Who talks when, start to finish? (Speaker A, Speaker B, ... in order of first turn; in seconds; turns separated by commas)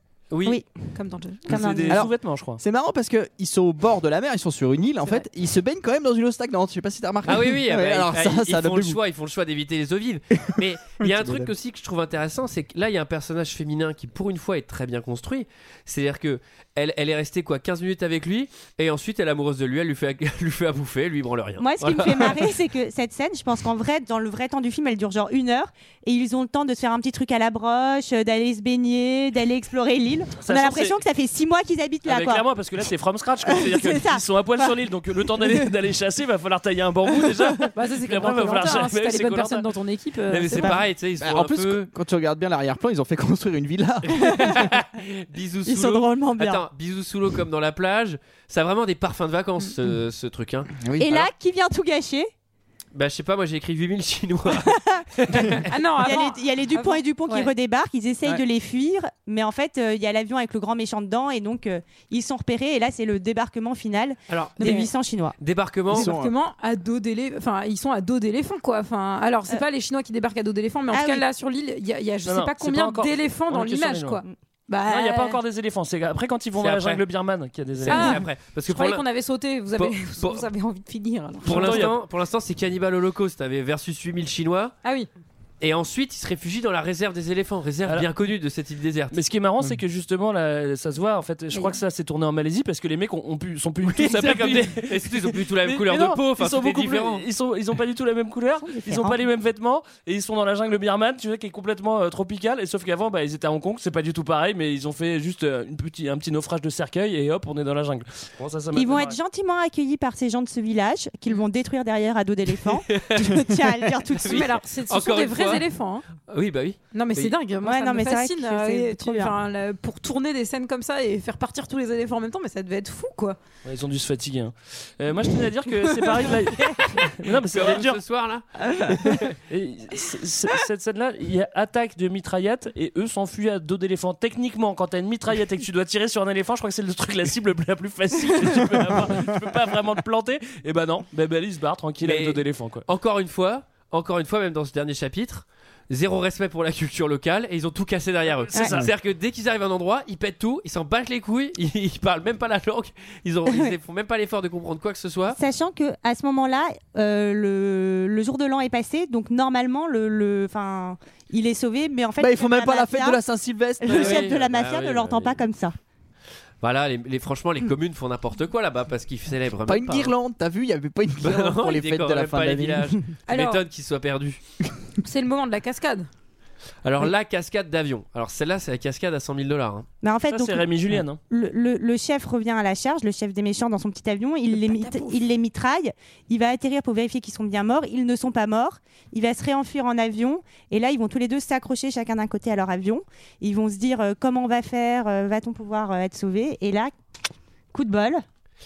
Speaker A: 0.3-0.6, Speaker B: 0.4-0.9, Speaker C: 0.9-1.6, Speaker B: 1.5-2.0, Speaker D: 1.5-2.6, Speaker E: 1.9-9.0, Speaker A: 7.2-22.5, Speaker E: 10.5-11.5, Speaker B: 21.6-32.4, Speaker D: 30.4-31.0, Speaker D: 32.0-39.7, Speaker B: 33.4-34.7, Speaker C: 37.8-40.8, Speaker A: 40.3-41.9, Speaker B: 40.5-40.8, Speaker E: 41.2-44.6, Speaker B: 44.2-44.6, Speaker A: 44.2-51.2, Speaker B: 45.7-46.6, Speaker E: 50.8-51.1, Speaker B: 51.0-52.3, Speaker A: 52.9-55.7, Speaker B: 54.6-55.4, Speaker C: 55.7-57.5, Speaker B: 56.0-65.3, Speaker A: 64.3-64.8, Speaker C: 64.6-64.9, Speaker A: 65.4-66.1, Speaker C: 65.9-75.4, Speaker E: 65.9-66.3, Speaker B: 70.9-71.2, Speaker D: 72.2-74.2, Speaker D: 74.9-78.2, Speaker A: 76.6-77.0, Speaker A: 77.8-79.0, Speaker C: 77.9-81.9, Speaker A: 79.8-80.5, Speaker A: 81.4-84.7, Speaker D: 81.4-82.0, Speaker C: 84.8-85.1, Speaker A: 85.6-89.2, Speaker D: 87.8-88.1, Speaker D: 89.1-109.2, Speaker C: 91.5-91.8, Speaker A: 93.9-97.2, Speaker B: 98.6-99.2, Speaker B: 108.7-114.5, Speaker A: 112.9-113.5, Speaker A: 114.1-115.6, Speaker C: 114.3-116.1, Speaker A: 116.2-117.3, Speaker C: 116.9-123.4, Speaker B: 117.6-119.3, Speaker D: 123.6-128.0, Speaker A: 127.4-129.2, Speaker D: 129.5-142.8, Speaker A: 142.0-155.4, Speaker D: 148.5-148.9, Speaker B: 153.5-153.7, Speaker B: 155.3-163.2, Speaker E: 162.2-164.3, Speaker B: 163.8-165.7, Speaker A: 163.9-165.4, Speaker A: 166.6-170.1, Speaker E: 169.7-173.0, Speaker A: 171.2-174.4, Speaker C: 173.3-173.6, Speaker C: 175.0-176.1, Speaker A: 176.8-179.9, Speaker B: 180.0-180.7, Speaker D: 180.3-181.2, Speaker B: 181.3-196.9, Speaker C: 184.6-185.2, Speaker B: 197.7-198.2